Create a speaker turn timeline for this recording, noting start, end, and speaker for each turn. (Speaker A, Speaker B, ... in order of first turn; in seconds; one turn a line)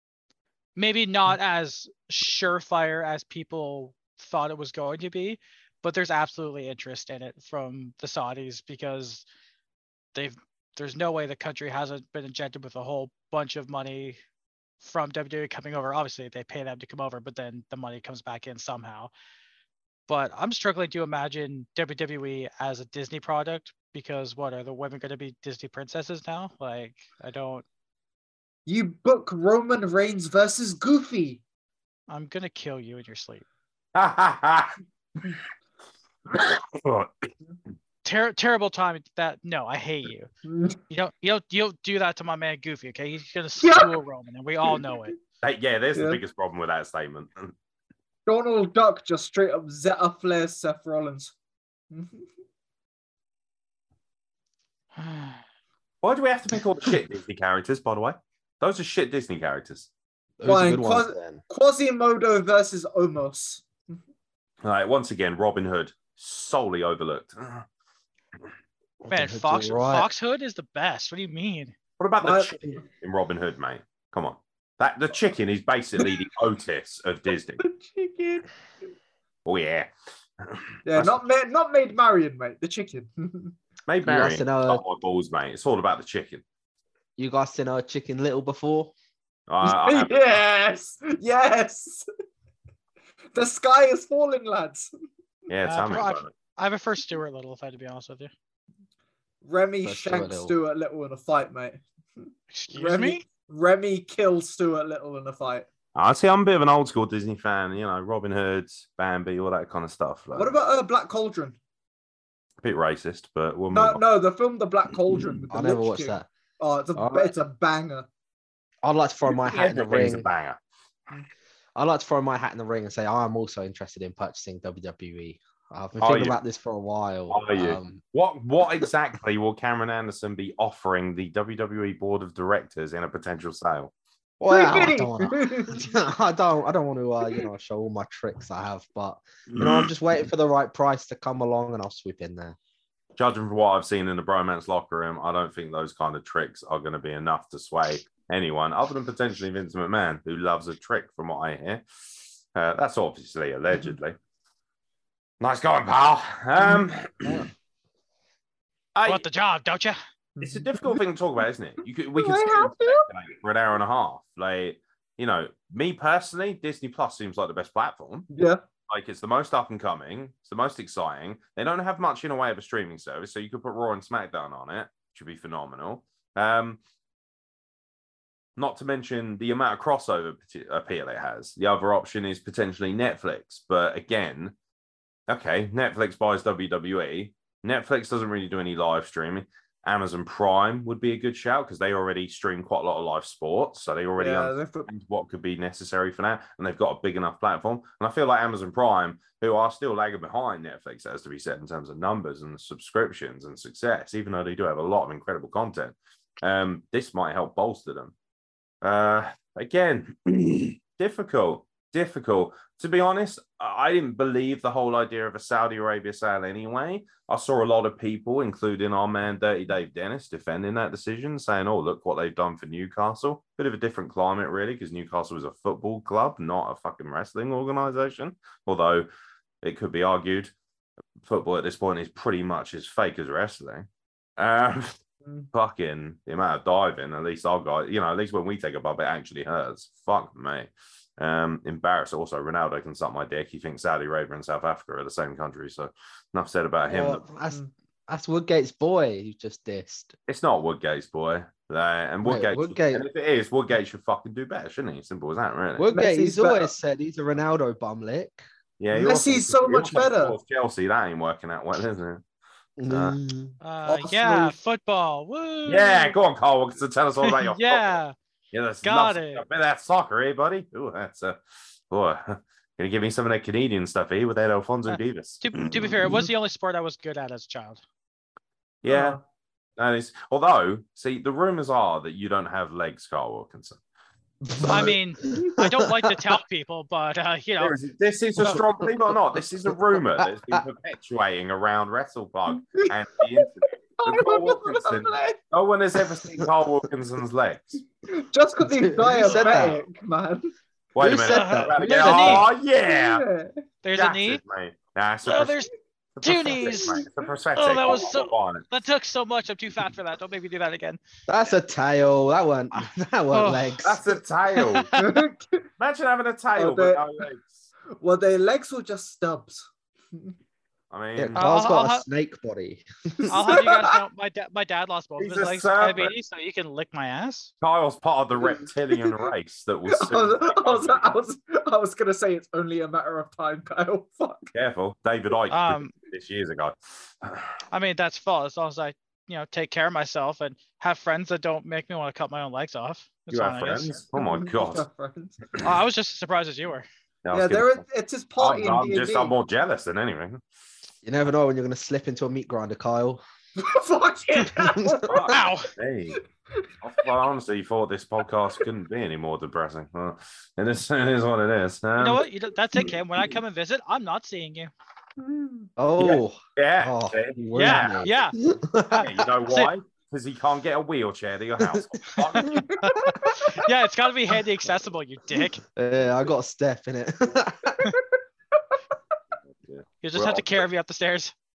Speaker A: 0.8-9.2
Speaker A: 10.1-14.2
Speaker A: 14.8-19.1
Speaker A: 20.1-27.6
Speaker B: 28.7-31.4
Speaker A: 32.1-33.5
Speaker C: 34.0-34.8
Speaker C: 36.3-37.3
Speaker A: 38.0-40.3
Speaker B: 40.5-40.8
Speaker A: 40.9-45.2
Speaker B: 43.6-43.9
Speaker C: 45.4-47.5
Speaker B: 46.0-46.2
Speaker B: 48.3-51.3
Speaker B: 51.9-52.3
Speaker A: 55.0-55.4
Speaker C: 56.0-59.9
Speaker D: 60.4-61.4
Speaker B: 60.5-64.0
Speaker C: 64.6-67.7
Speaker D: 69.0-70.1
Speaker A: 69.1-71.8
Speaker C: 72.0-77.6
Speaker B: 72.2-72.8
Speaker B: 77.6-78.5
Speaker C: 79.5-79.9
Speaker C: 80.4-81.2
Speaker B: 80.8-83.6
Speaker C: 83.9-86.4
Speaker D: 84.0-84.8
Speaker D: 87.2-88.9
Speaker C: 89.5-90.3
Speaker B: 89.6-92.0
Speaker B: 93.3-94.9
Speaker C: 95.5-96.3
Speaker A: 95.7-98.3
Speaker B: 99.4-105.7
Speaker D: 99.8-100.5
Speaker A: 102.5-103.2
Speaker C: 106.0-110.5
Speaker B: 110.3-111.6
Speaker C: 112.6-114.0
Speaker B: 113.7-118.1
Speaker D: 115.5-116.3
Speaker D: 117.0-117.3
Speaker D: 118.8-120.3
Speaker C: 119.3-120.6
Speaker D: 121.8-128.0
Speaker C: 126.0-126.4
Speaker C: 127.3-133.9
Speaker D: 134.4-142.6
Speaker B: 134.5-135.9
Speaker C: 139.5-139.9
Speaker C: 143.2-154.2
Speaker C: 155.4-157.4
Speaker D: 157.2-157.5
Speaker C: 158.9-159.2
Speaker A: 159.1-160.0
Speaker B: 160.4-161.0
Speaker C: 160.4-168.3
Speaker B: 162.2-163.1
Speaker B: 168.3-168.6
Speaker C: 168.9-176.8
Speaker C: 178.6-184.6
Speaker C: 185.3-208.1
Speaker B: 194.2-194.9
Speaker C: 208.8-229.1
Speaker C: 229.6-230.5
Speaker C: 231.2-233.9
Speaker C: 234.4-235.0
Speaker C: 235.5-247.2
Speaker D: 246.9-250.2
Speaker C: 250.3-255.9
Speaker D: 252.2-253.1
Speaker D: 255.8-258.4
Speaker B: 255.9-256.7
Speaker C: 258.8-262.2
Speaker B: 258.9-260.4
Speaker D: 262.8-263.6
Speaker C: 262.9-263.2
Speaker A: 263.6-266.2
Speaker B: 263.9-264.6
Speaker C: 265.7-268.0
Speaker A: 267.2-268.1
Speaker C: 268.5-271.4
Speaker A: 268.8-269.4
Speaker C: 271.9-276.0
Speaker A: 274.9-277.8
Speaker C: 278.8-279.2
Speaker B: 278.9-279.2
Speaker C: 279.8-283.8
Speaker D: 284.4-286.1
Speaker A: 284.6-287.8
Speaker C: 287.6-297.8
Speaker D: 288.5-288.9
Speaker D: 289.9-290.6
Speaker B: 294.0-295.4
Speaker B: 298.1-300.5
Speaker D: 298.6-299.8
Speaker C: 300.9-303.2
Speaker D: 301.0-302.5
Speaker A: 301.3-302.5
Speaker B: 302.9-303.5
Speaker A: 303.8-304.4
Speaker C: 303.9-305.6
Speaker A: 305.2-305.7
Speaker C: 306.2-308.7
Speaker A: 306.2-307.0
Speaker B: 306.6-307.1
Speaker A: 307.6-311.0
Speaker D: 311.3-314.1
Speaker A: 313.3-313.8
Speaker C: 313.8-314.9
Speaker A: 314.6-315.2
Speaker B: 315.0-315.6
Speaker C: 315.8-317.6
Speaker B: 316.6-317.1
Speaker B: 318.0-320.4
Speaker C: 320.9-321.5
Speaker D: 321.2-323.5
Speaker A: 321.4-322.1
Speaker A: 323.3-327.5
Speaker B: 323.5-323.9
Speaker C: 325.2-326.1
Speaker C: 327.6-331.0
Speaker B: 328.4-329.2
Speaker B: 329.9-334.5
Speaker C: 334.5-337.5
Speaker A: 335.5-335.9
Speaker A: 337.7-344.0
Speaker C: 343.3-344.9
Speaker B: 344.2-345.4
Speaker A: 345.6-346.9
Speaker C: 347.2-347.8
Speaker B: 347.3-349.4
Speaker C: 348.4-350.4
Speaker D: 351.0-353.2
Speaker B: 353.6-355.3
Speaker D: 354.6-355.1
Speaker C: 355.1-356.2
Speaker A: 355.3-355.7
Speaker C: 356.8-362.3
Speaker A: 362.0-364.7
Speaker B: 365.2-365.7
Speaker D: 365.8-369.3
Speaker C: 366.0-368.1
Speaker A: 367.5-368.4
Speaker A: 368.9-369.7
Speaker C: 368.9-372.8
Speaker B: 372.4-373.6
Speaker A: 372.8-375.6
Speaker D: 375.7-377.9
Speaker B: 377.8-378.8
Speaker C: 379.6-380.6
Speaker A: 380.0-381.3